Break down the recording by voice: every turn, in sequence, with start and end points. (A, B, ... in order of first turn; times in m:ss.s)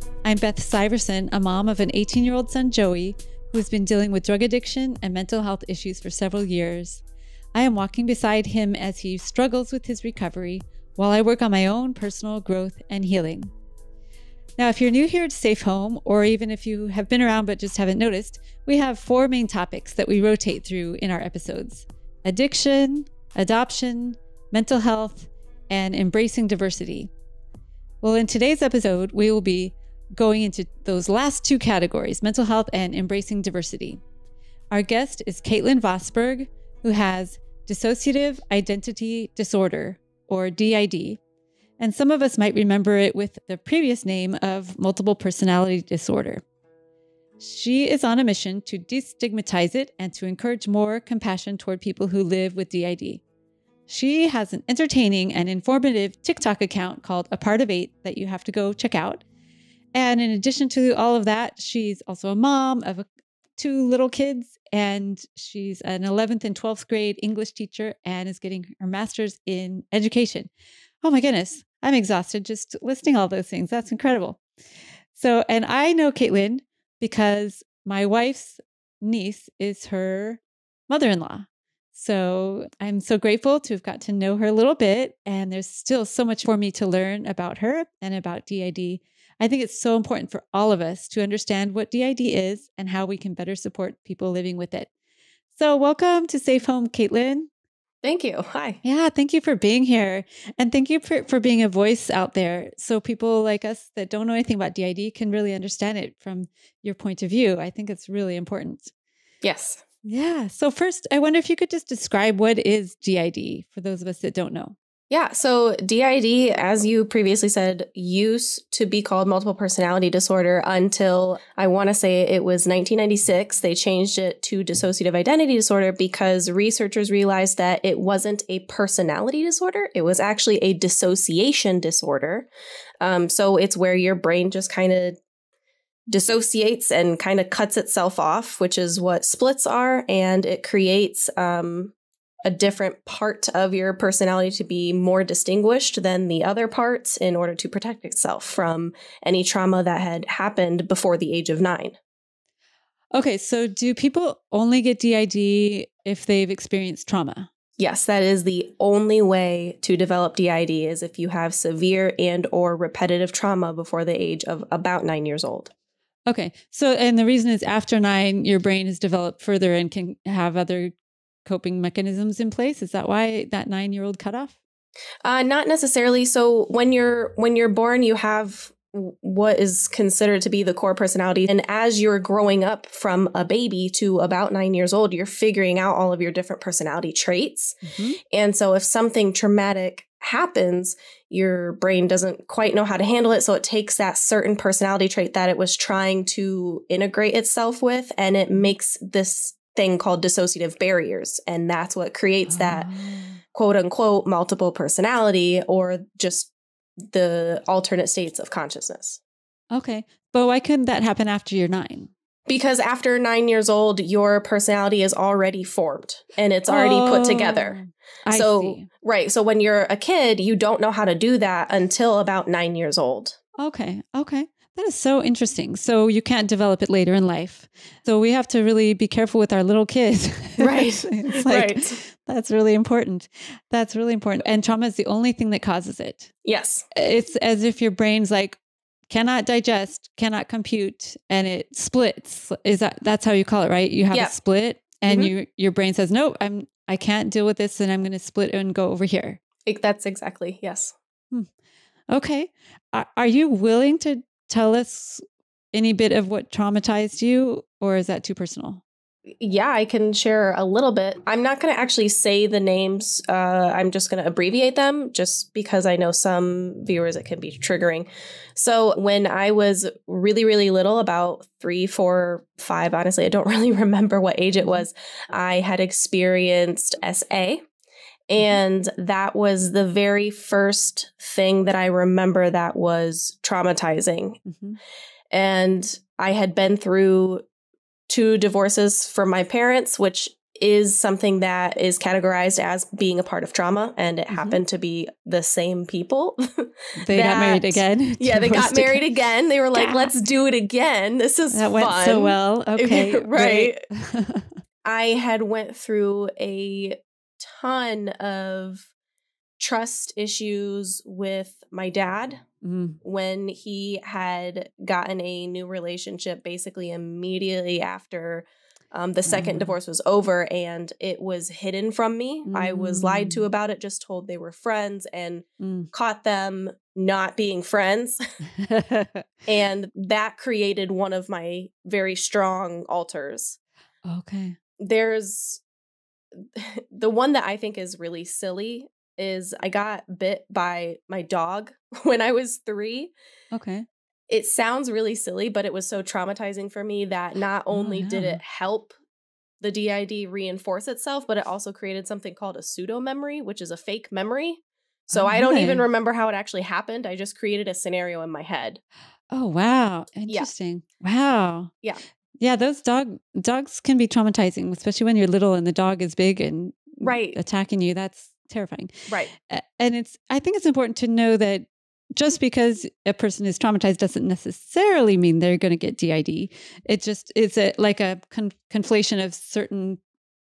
0:00.2-0:07.0 A
0:07.5-0:13.5 A
0:14.6-0:27.1 A
0:28.0-0:34.0 A
0:34.7-0:41.2 A
0:41.8-0:46.4 A
0:47.4-0:53.2 A
0:53.9-0:59.2 A
0:59.9-1:03.0 A
1:03.6-1:10.5 A
1:11.0-1:14.4 A
1:15.1-1:34.9 A
1:35.5-1:37.5 A
1:38.0-1:38.8 B
1:38.8-1:48.9 A
1:49.4-1:49.8 B
1:50.0-1:54.8 A
1:55.1-2:12.5 B
2:13.0-2:15.2 B
2:16.1-2:21.9 B
2:22.4-2:32.0 B
2:33.1-2:37.5 A
2:37.8-2:45.7 B
2:46.3-2:54.6 A
2:55.2-3:07.8 B
3:07.8-3:08.2 A
3:08.3-3:22.9 B
3:22.5-3:23.4 A
3:23.5-3:26.5 B
3:27.1-3:29.2 B
3:29.7-3:32.1 A
3:32.5-3:43.4 B
3:36.7-3:38.9 A
3:43.6-3:56.3 A
3:50.6-3:52.0 B
3:56.4-3:56.8 B
3:56.9-3:58.6 A
3:59.1-4:09.4 A
4:09.6-4:10.9 B
4:12.1-4:18.8 A
4:19.4-4:37.6 B
4:34.6-4:34.8 A
4:38.3-4:44.4 B
4:44.4-4:44.8 A
4:45.3-4:47.4 B
4:48.1-5:03.8 B
4:54.3-4:54.6 A
4:57.0-4:59.0 A
4:59.7-5:00.1 A
5:01.5-5:04.5 A
5:04.8-5:08.9 B
5:09.6-5:12.4 B
5:12.6-5:13.0 A
5:13.0-5:28.2 B
5:19.3-5:19.7 A
5:22.4-5:23.4 A
5:25.6-5:25.9 A
5:28.6-5:29.3 A
5:29.5-5:33.6 B
5:34.0-5:34.6 A
5:34.8-5:35.6 B
5:36.4-5:43.1 B
5:43.5-5:43.8 A
5:44.3-5:48.9 B
5:47.7-5:48.4 A
5:49.6-5:58.8 B
5:55.1-5:55.8 A
5:59.3-6:01.7 A
6:02.4-6:20.0 A
6:07.0-6:07.4 B